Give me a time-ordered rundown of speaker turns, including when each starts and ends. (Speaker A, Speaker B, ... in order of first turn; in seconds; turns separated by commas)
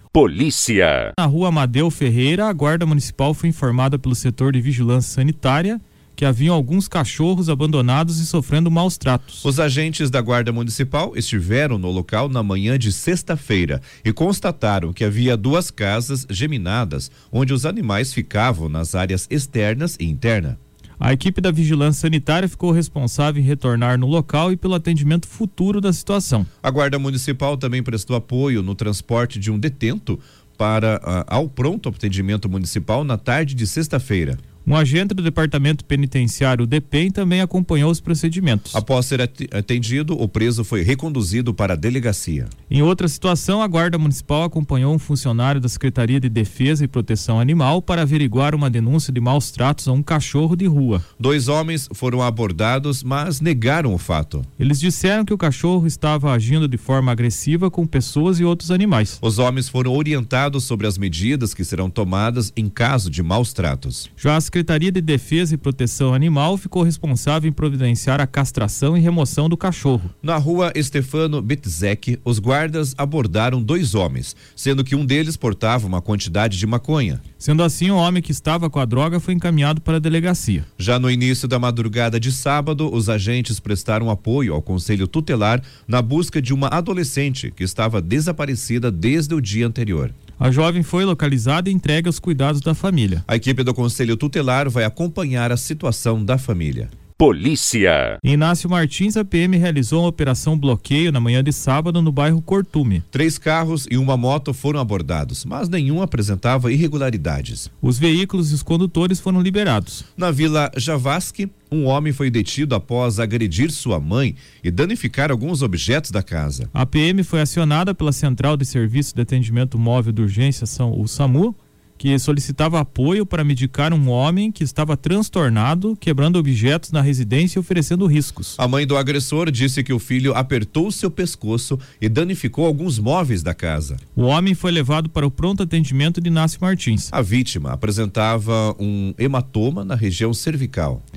Speaker A: 0.1-1.1, Speaker B: 1.2-9.4, Speaker C: 9.4-20.6, Speaker B: 21.0-26.5, Speaker C: 26.6-34.4, Speaker B: 34.6-38.8, Speaker C: 38.7-42.5, Speaker B: 42.7-51.0, Speaker C: 51.2-54.5, Speaker B: 54.6-59.2, Speaker C: 59.2-64.1, Speaker B: 64.2-70.1, Speaker C: 70.2-77.2, Speaker B: 77.4-80.7, Speaker C: 80.8-90.1, Speaker B: 90.4-93.2, Speaker C: 93.3-96.9, Speaker A: 97.2-98.2, Speaker B: 98.2-103.0, Speaker C: 103.1-107.7, Speaker B: 107.8-110.0, Speaker C: 110.2-116.7, Speaker B: 116.7-128.6, Speaker C: 128.6-134.0, Speaker B: 134.1-137.1, Speaker C: 137.1-141.0